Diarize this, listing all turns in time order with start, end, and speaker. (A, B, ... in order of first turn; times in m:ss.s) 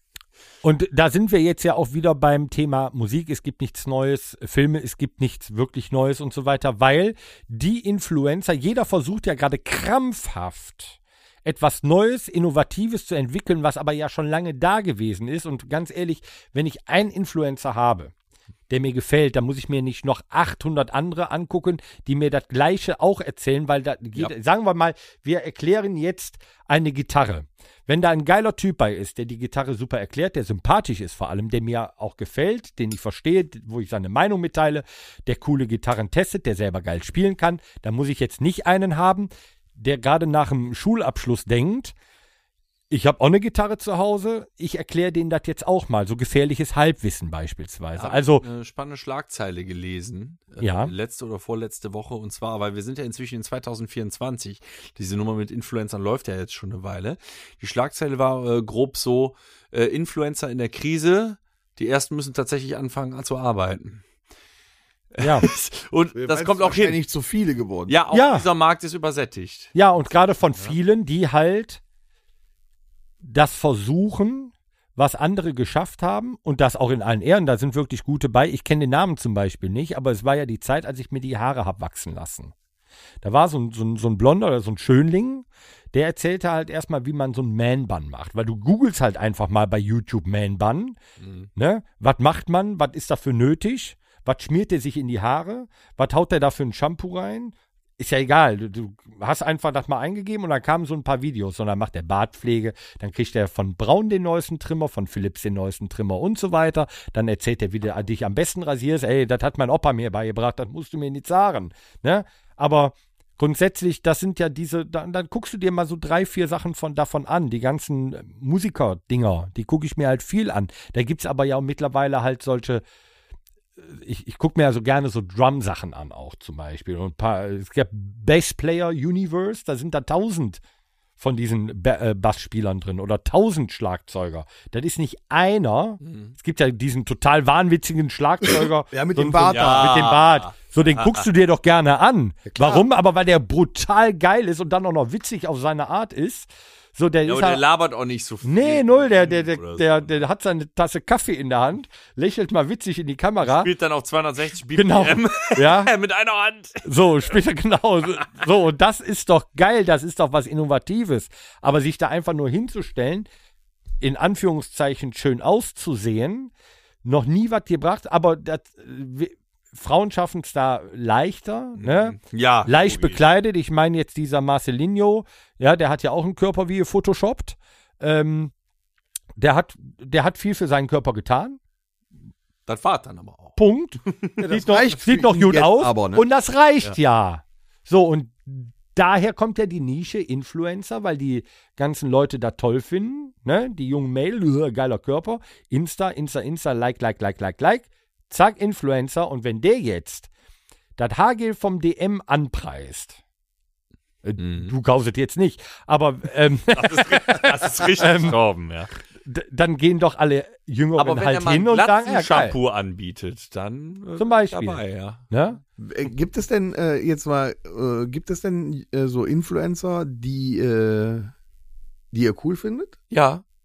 0:00.6-0:18.1 A
0:18.7-0:41.9 A
0:42.9-0:48.5 A
0:48.0-1:04.0 B
0:50.6-0:50.9 A
1:05.1-1:07.0 B
1:05.2-1:05.5 A
1:06.2-1:08.0 C
1:07.9-1:10.8 B
1:08.1-1:08.5 A
1:09.7-1:11.8 A
1:13.2-1:22.5 A
1:23.2-1:31.0 A
1:31.2-1:31.5 B
1:31.6-2:02.8 A
2:03.8-2:10.6 A
2:11.2-2:27.6 A
2:16.0-2:16.3 B
2:18.9-2:20.1 C
2:19.5-2:21.2 B
2:22.5-2:22.8 C
2:27.3-2:30.1 B
2:28.4-2:33.7 A
2:33.4-2:37.3 B
2:34.8-2:35.9 A
2:36.8-2:43.3 A
2:44.0-2:46.5 A
2:47.0-2:58.5 A
2:51.8-2:53.2 B
2:59.4-3:01.6 A
3:02.7-3:03.6 B
3:03.6-3:20.3 A
3:04.4-3:06.2 C
3:21.0-3:23.2 A
3:24.2-3:28.4 A
3:24.4-3:24.7 B
3:26.7-3:28.9 B
3:29.2-3:32.6 A
3:31.0-3:35.3 B
3:34.2-3:35.6 A
3:35.8-3:41.3 C
3:42.1-3:43.0 C
3:43.1-3:43.4 B